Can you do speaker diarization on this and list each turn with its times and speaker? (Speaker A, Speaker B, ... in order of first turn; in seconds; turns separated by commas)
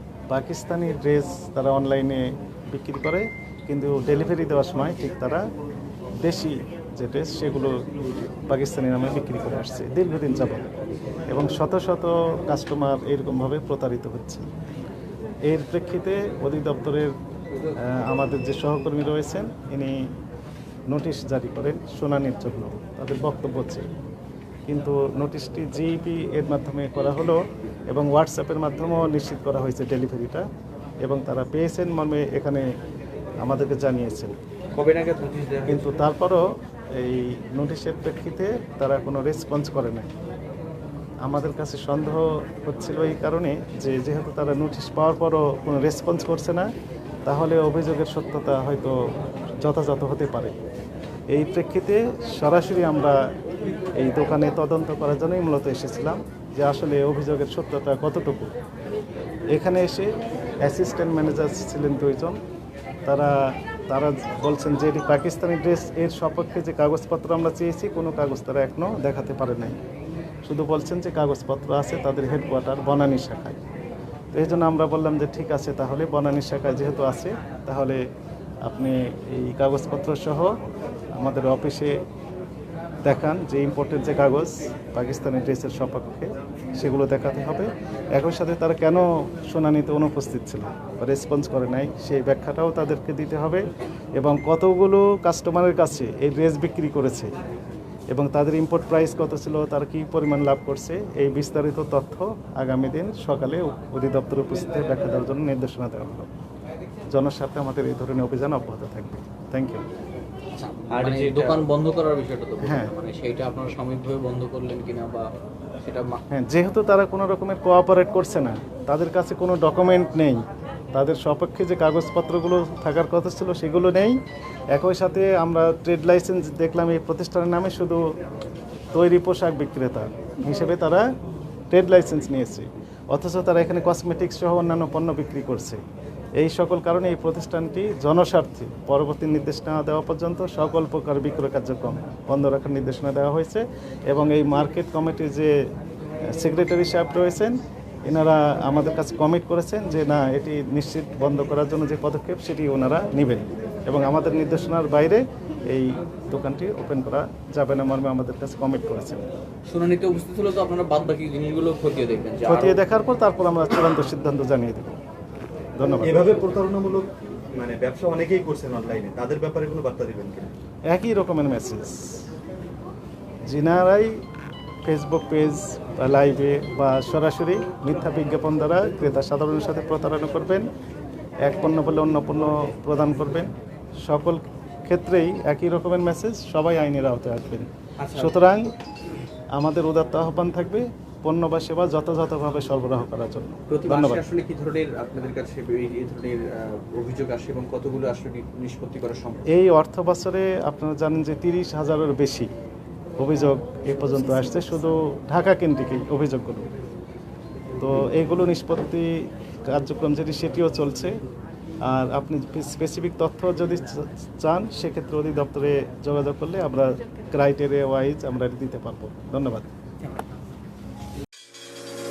Speaker A: 0.3-5.4, Speaker A: 6.2-7.8, Speaker A: 8.5-10.7, Speaker A: 11.3-14.5, Speaker A: 15.5-17.1, Speaker A: 17.8-20.0, Speaker A: 20.9-23.9, Speaker A: 24.7-30.5, Speaker A: 31.0-32.7, Speaker A: 33.4-34.4, Speaker B: 34.7-35.9, Speaker A: 35.7-40.1, Speaker A: 41.2-46.7, Speaker A: 47.3-49.0, Speaker A: 49.6-50.5, Speaker A: 51.3-53.2, Speaker A: 54.0-58.5, Speaker A: 59.5-62.4, Speaker A: 63.1-63.4, Speaker A: 63.9-69.8, Speaker A: 70.5-73.6, Speaker A: 74.3-78.0, Speaker A: 78.7-80.5, Speaker A: 81.2-82.0, Speaker A: 83.0-93.7, Speaker A: 94.2-97.3, Speaker A: 98.1-106.3, Speaker A: 107.1-109.8, Speaker C: 110.5-115.3, Speaker B: 110.9-111.7, Speaker A: 112.6-112.9, Speaker C: 115.8-116.2, Speaker A: 116.3-120.4, Speaker A: 120.9-124.2, Speaker A: 124.7-128.0, Speaker A: 128.9-131.1, Speaker A: 131.7-135.8, Speaker A: 136.4-145.5, Speaker A: 146.3-159.2, Speaker C: 159.7-162.8, Speaker A: 162.4-165.0, Speaker A: 165.8-166.3, Speaker D: 166.0-170.5, Speaker A: 170.9-172.3, Speaker A: 173.5-174.2, Speaker A: 174.8-180.7, Speaker A: 181.4-188.7, Speaker B: 188.0-188.4, Speaker A: 189.6-194.2, Speaker B: 193.7-199.5, Speaker A: 199.5-202.5, Speaker A: 203.2-206.7, Speaker A: 207.8-209.2, Speaker A: 209.7-211.2, Speaker A: 211.9-219.7